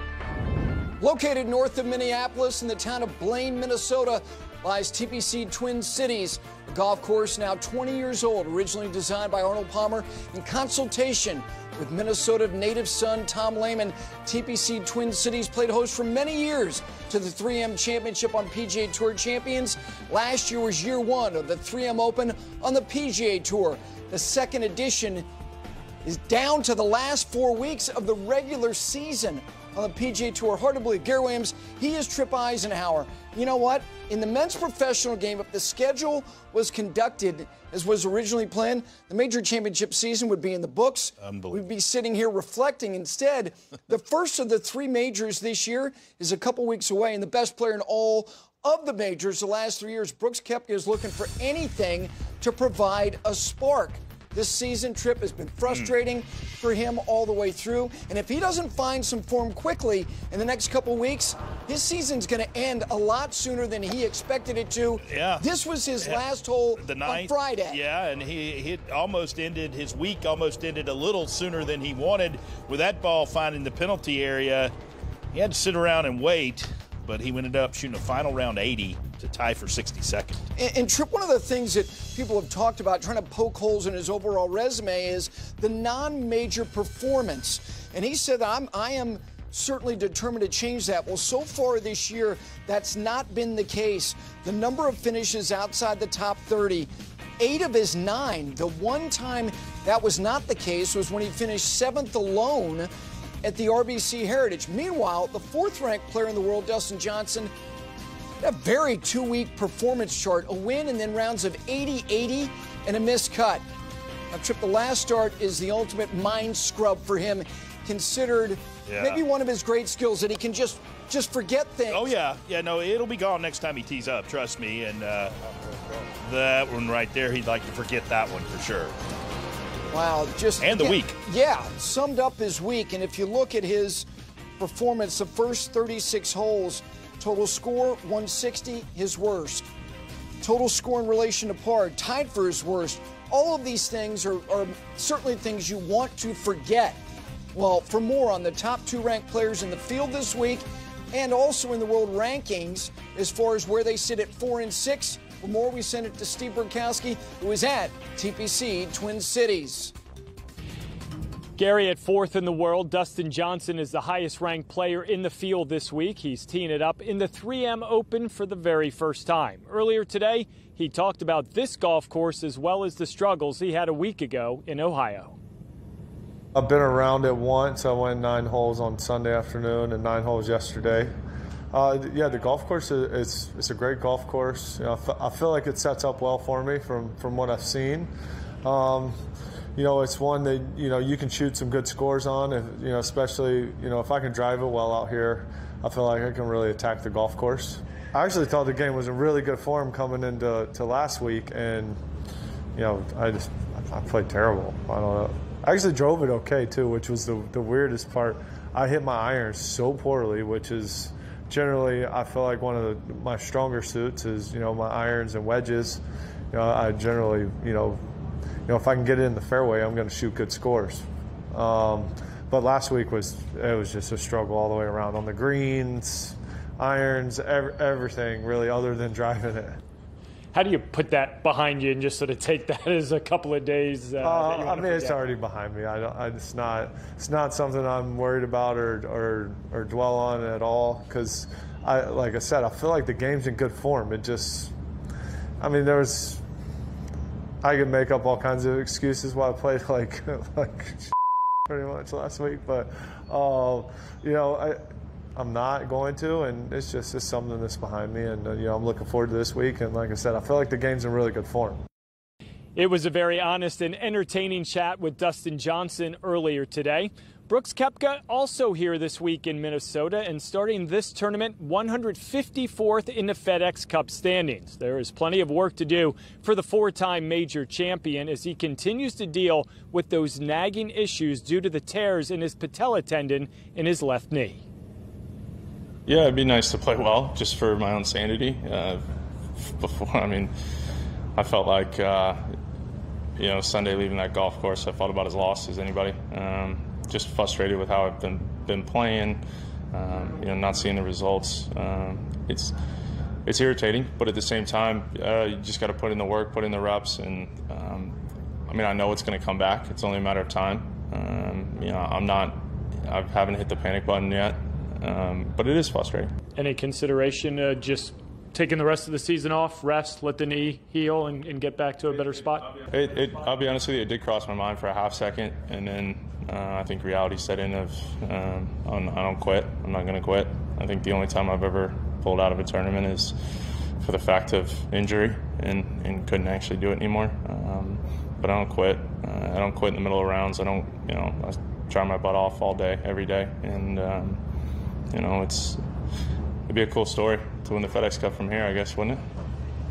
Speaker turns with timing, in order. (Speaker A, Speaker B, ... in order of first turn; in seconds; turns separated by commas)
Speaker A: 1.0-25.3, Speaker A: 26.0-67.8, Speaker B: 41.2-41.6, Speaker B: 65.0-65.5, Speaker B: 66.7-74.7, Speaker B: 75.3-80.4, Speaker A: 80.5-102.9, Speaker A: 103.4-107.5, Speaker A: 108.4-113.6, Speaker A: 114.3-122.1, Speaker B: 118.8-119.2, Speaker B: 121.9-125.3, Speaker B: 126.2-128.9, Speaker A: 129.9-134.1, Speaker B: 130.6-131.2, Speaker A: 134.6-139.7, Speaker A: 140.4-147.0, Speaker A: 147.5-159.9, Speaker C: 161.6-175.3, Speaker D: 176.5-181.1, Speaker D: 181.7-188.1, Speaker D: 188.6-189.2, Speaker D: 189.7-202.0, Speaker D: 202.8-216.0, Speaker D: 216.5-218.0, Speaker D: 218.7-229.8, Speaker C: 230.5-235.3, Speaker D: 234.2-244.7, Speaker D: 245.6-246.4, Speaker D: 247.6-251.0, Speaker D: 251.7-254.8, Speaker D: 255.3-261.8, Speaker C: 262.8-284.6, Speaker E: 286.1-289.0, Speaker E: 289.6-290.5, Speaker E: 291.3-292.4, Speaker E: 293.4-299.4, Speaker E: 299.9-302.7, Speaker E: 303.4-308.1, Speaker E: 308.7-316.3, Speaker C: 316.6-322.8, Speaker E: 322.9-333.3, Speaker E: 334.0-344.4, Speaker E: 345.1-345.8, Speaker E: 346.7-349.2